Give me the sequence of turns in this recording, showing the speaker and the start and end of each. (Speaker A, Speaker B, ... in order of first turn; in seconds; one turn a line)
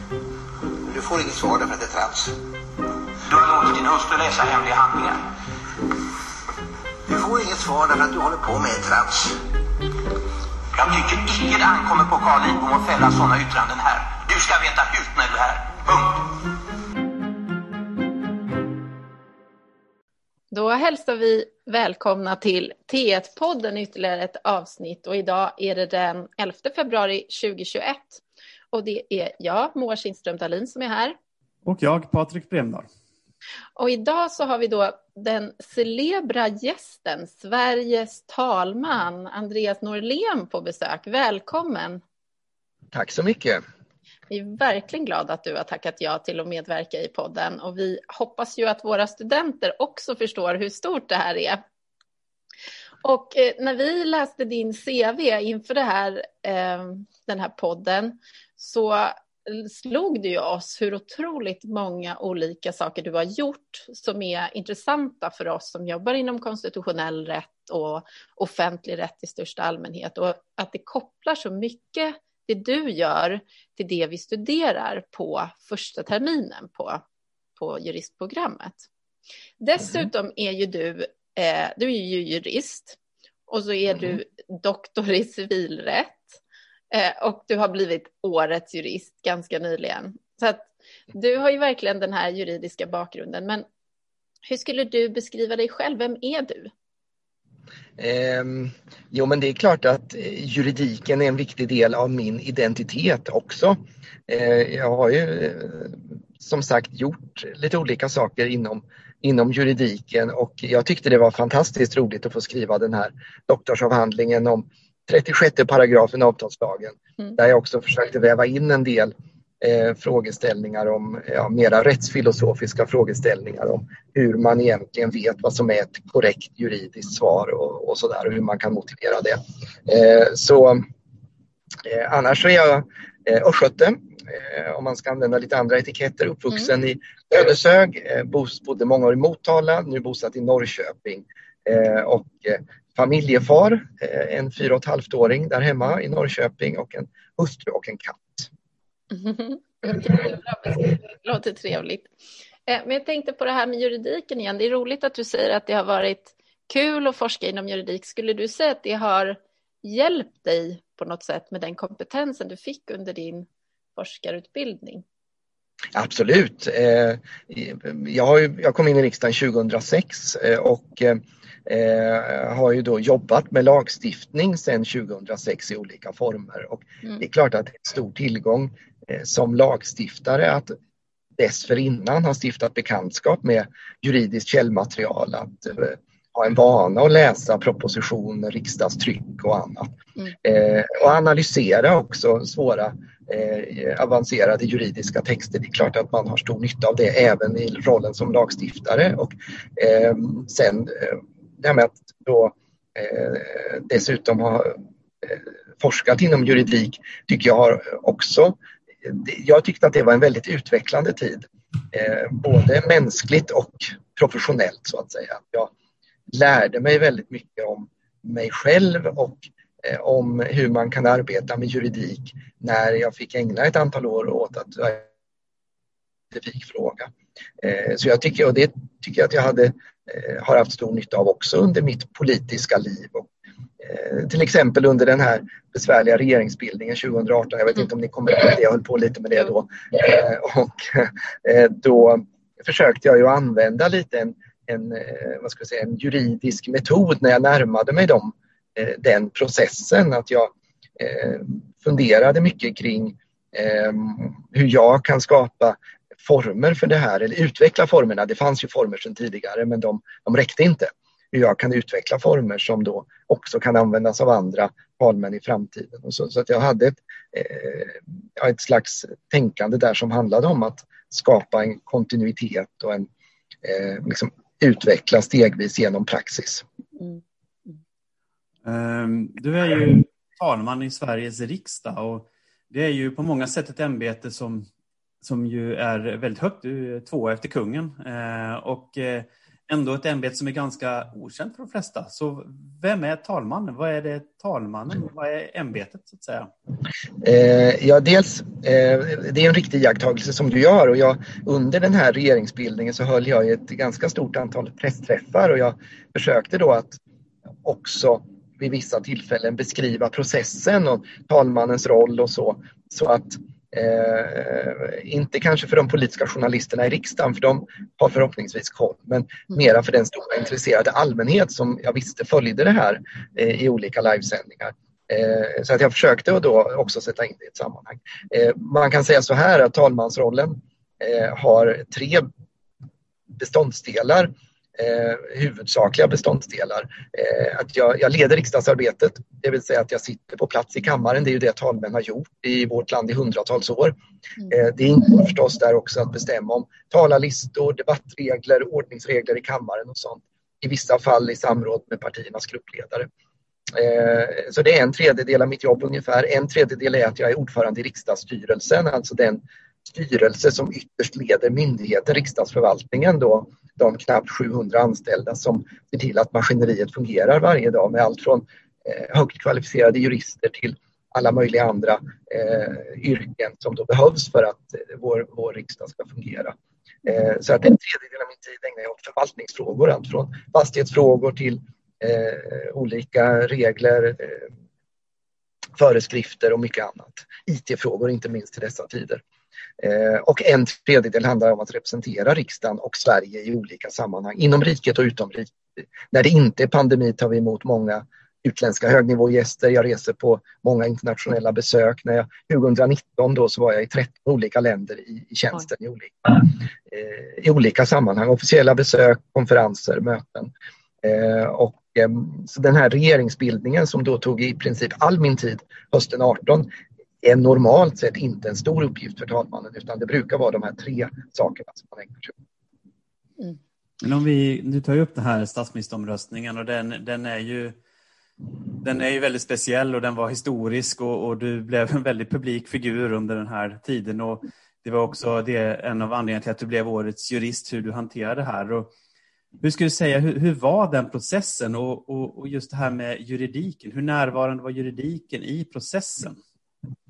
Speaker A: 0.8-2.3
Speaker B: 3.2-5.2
Speaker A: 7.1-9.4
Speaker B: 10.8-16.3
Speaker C: 20.5-31.2
Speaker D: 31.6-32.9
Speaker C: 33.8-42.0
Speaker E: 42.9-43.6
Speaker C: 44.3-51.6
Speaker C: 53.0-77.0
Speaker C: 77.6-78.9
Speaker C: 79.6-83.0
Speaker C: 83.5-86.4
Speaker C: 86.9-93.7
Speaker C: 94.5-96.7
Speaker E: 98.0-130.8
Speaker E: 131.8-148.5
Speaker C: 149.1-152.1
Speaker C: 152.7-165.0
Speaker E: 165.9-180.7
Speaker E: 181.4-215.7
Speaker E: 216.3-225.1
Speaker E: 226.3-233.3
Speaker E: 233.8-273.1
Speaker E: 273.6-276.6
Speaker C: 277.0-277.8
Speaker D: 278.6-284.7
Speaker D: 285.2-296.5
Speaker E: 297.2-307.0
Speaker E: 307.6-332.3
Speaker E: 333.4-344.0
Speaker E: 344.5-353.1
Speaker E: 353.7-384.5
Speaker E: 385.8-389.2
Speaker E: 389.8-410.5
Speaker E: 411.0-416.7
Speaker E: 417.2-422.4
Speaker D: 424.0-427.8
Speaker D: 428.8-438.9
Speaker D: 439.6-446.4